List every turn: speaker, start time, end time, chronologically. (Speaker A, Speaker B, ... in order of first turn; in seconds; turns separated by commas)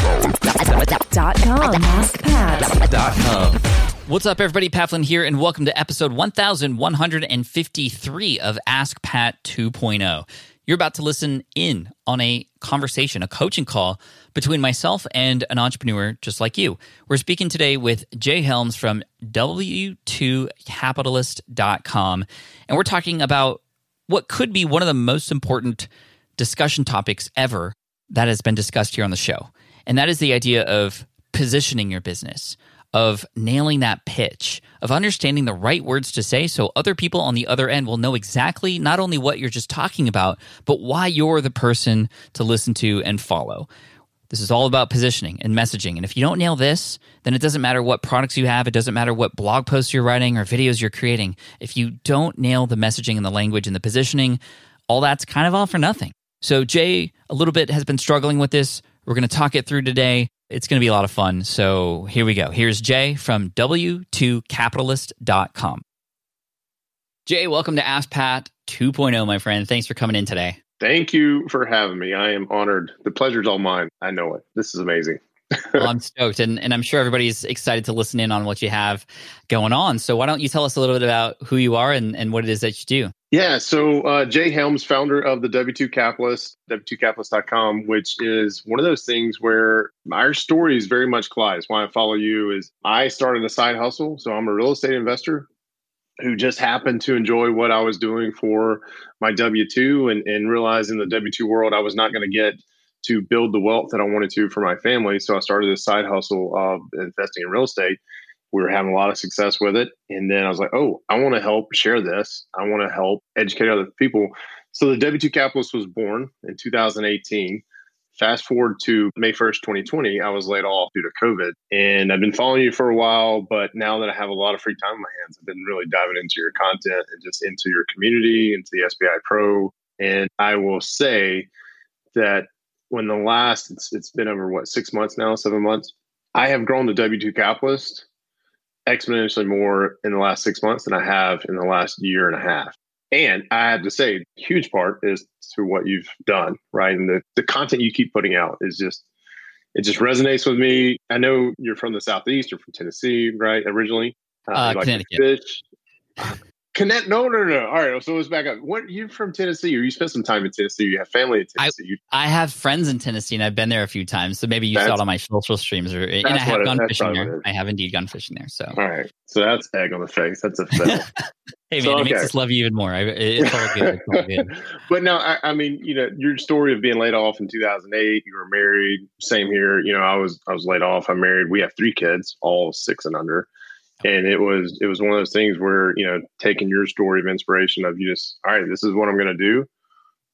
Speaker A: 0.6-3.2, Speaker B: 3.1-43.7, Speaker B: 44.3-65.8, Speaker B: 67.3-70.6, Speaker C: 70.8-75.9, Speaker B: 75.8-83.1, Speaker C: 83.3-95.5, Speaker C: 96.2-108.0, Speaker C: 108.5-117.6, Speaker C: 118.2-131.5, Speaker C: 132.1-138.0, Speaker C: 138.9-149.0, Speaker C: 149.7-155.6, Speaker B: 154.5-155.2, Speaker C: 156.2-162.0, Speaker B: 161.6-168.8, Speaker C: 164.7-165.0, Speaker C: 166.2-167.4, Speaker C: 168.7-171.1, Speaker B: 171.7-174.5, Speaker C: 171.8-172.3, Speaker C: 173.4-183.5, Speaker C: 184.0-189.7